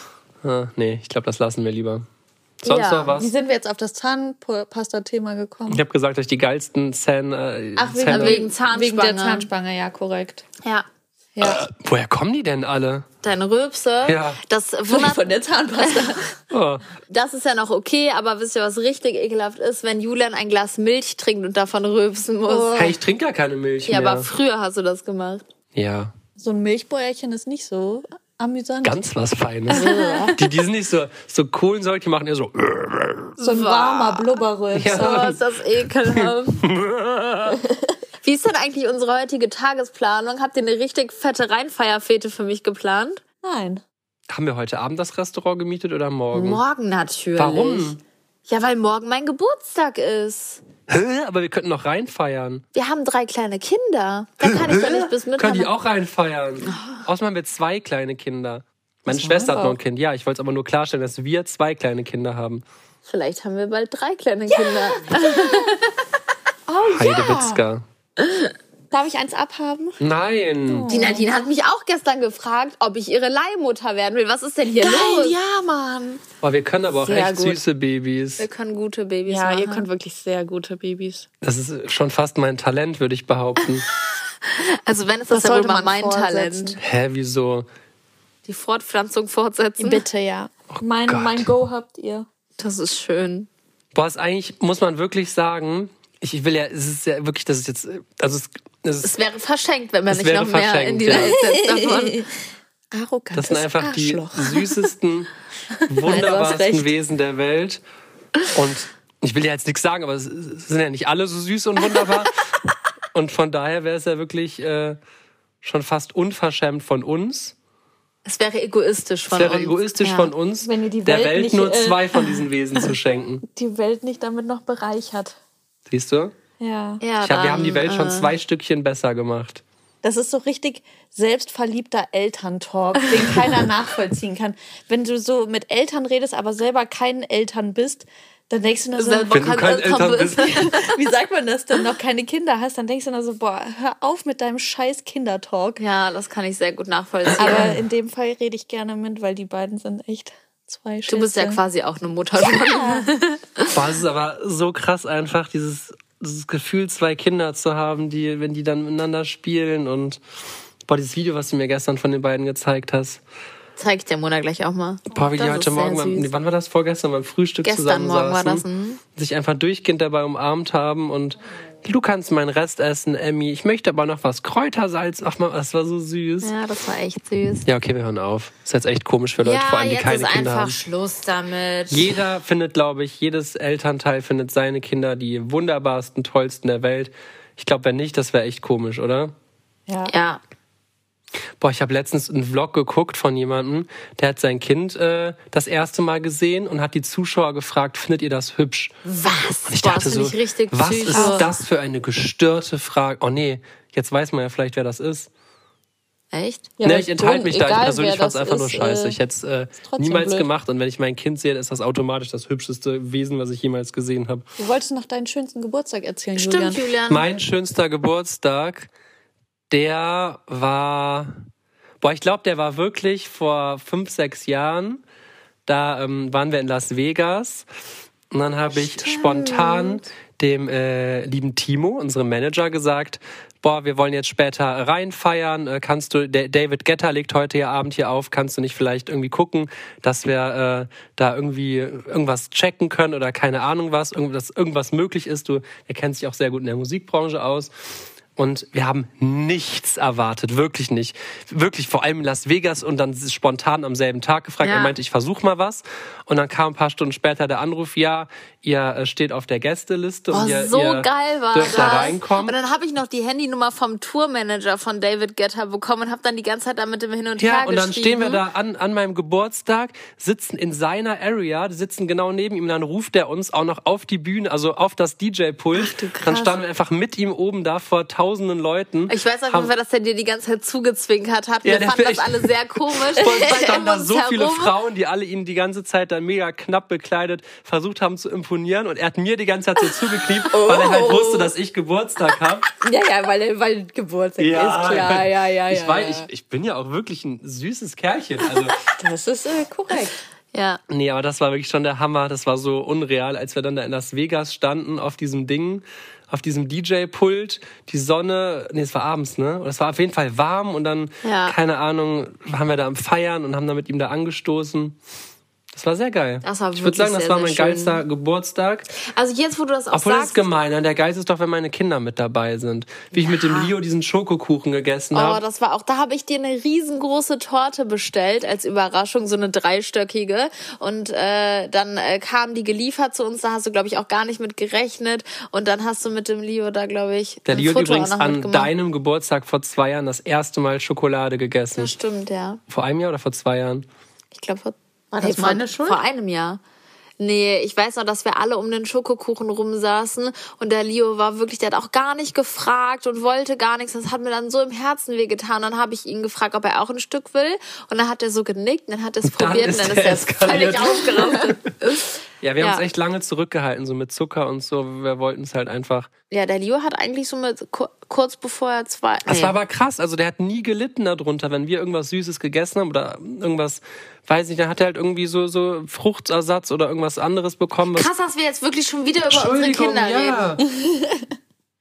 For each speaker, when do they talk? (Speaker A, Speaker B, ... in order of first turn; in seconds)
Speaker A: 0.4-2.0, 2.6-3.3, 5.7-8.4, 11.4-13.1, 14.0-14.4, 16.5-16.8, 22.7-24.3, 25.7-26.1, 28.8-29.8, 30.4-33.4, 34.7-35.4, 36.1-37.6, 44.3-46.6, 47.4-48.0, 50.9-52.6, 54.4-62.6, 66.9-67.8, 70.0-70.9, 76.4-78.5, 81.4-83.8, 86.8-87.7, 90.7-91.5, 93.9-99.2, 100.1-101.4, 103.3-105.3, 105.9-107.8, 108.5-112.3, 113.1-115.0, 115.6-117.5, 119.3-123.4, 125.9-126.3, 127.2-129.6, 139.3-140.7, 147.4-147.8, 153.7-160.2, 160.8-163.2, 165.1-176.5, 177.6-180.8, 181.9-189.3, 191.6-199.0, 199.6-205.3, 206.8-214.5, 217.1-218.9, 219.7-221.3, 222.0-225.0, 225.7-227.7, 228.3-262.5, 267.4-279.7, 281.6-292.7, 294.4-298.8, 300.9-315.0, 315.7-318.9, 319.9-325.4, 337.4-341.9, 342.7-343.9, 359.2-361.6, 362.4-366.1, 369.3-378.1, 379.3-380.6
Speaker B: 2.6-3.1, 8.1-9.5, 13.2-15.2, 15.8-16.1, 17.1-22.7, 23.9-25.4, 29.7-30.4, 33.4-36.6, 38.2-43.2, 46.3-48.0, 48.5-50.6, 52.7-55.7, 56.6-57.0, 63.0-66.0, 68.2-68.5, 70.9-75.4, 78.4-79.9, 84.5-86.8, 88.5-90.0, 92.6-93.5, 99.0-102.2, 118.2-120.3, 127.0-128.3, 138.9-141.0, 145.8-147.7, 151.1-153.7, 163.8-166.3, 167.6-169.0, 176.4-177.7, 179.4-182.1, 190.1-190.4, 199.1-201.5, 206.3-206.7, 216.4-217.3, 229.0-230.0, 254.6-254.9, 260.3-268.4, 275.8-276.2, 279.1-284.7, 290.5-291.5, 292.8-296.2, 300.5-300.8, 311.2-311.6, 316.4-318.0, 318.9-320.4, 323.1-323.7, 325.1-338.7, 341.7-342.6, 344.3-346.6, 347.2-362.9, 366.3-369.6, 377.9-380.6
Speaker C: 3.1-5.8, 7.8-10.4, 11.4-11.6, 14.9-16.2, 22.5-22.9, 26.4-29.0, 29.7-30.4, 33.4-35.3, 43.4-43.8, 59.1-59.8, 64.5-65.7, 66.7-67.6, 68.9-70.0, 70.7-71.3, 74.8-76.2, 77.0-77.6, 79.3-81.3, 85.3-86.8, 89.8-92.3, 101.4-102.3, 102.9-104.8, 106.0-106.9, 120.6-122.4, 123.5-125.4, 126.6-127.0, 130.0-145.8, 147.4-151.6, 152.4-153.1, 201.1-201.5, 206.8-209.2, 209.8-210.5, 214.6-216.9, 294.8-295.2, 299.0-300.1, 345.1-346.0, 380.6-381.3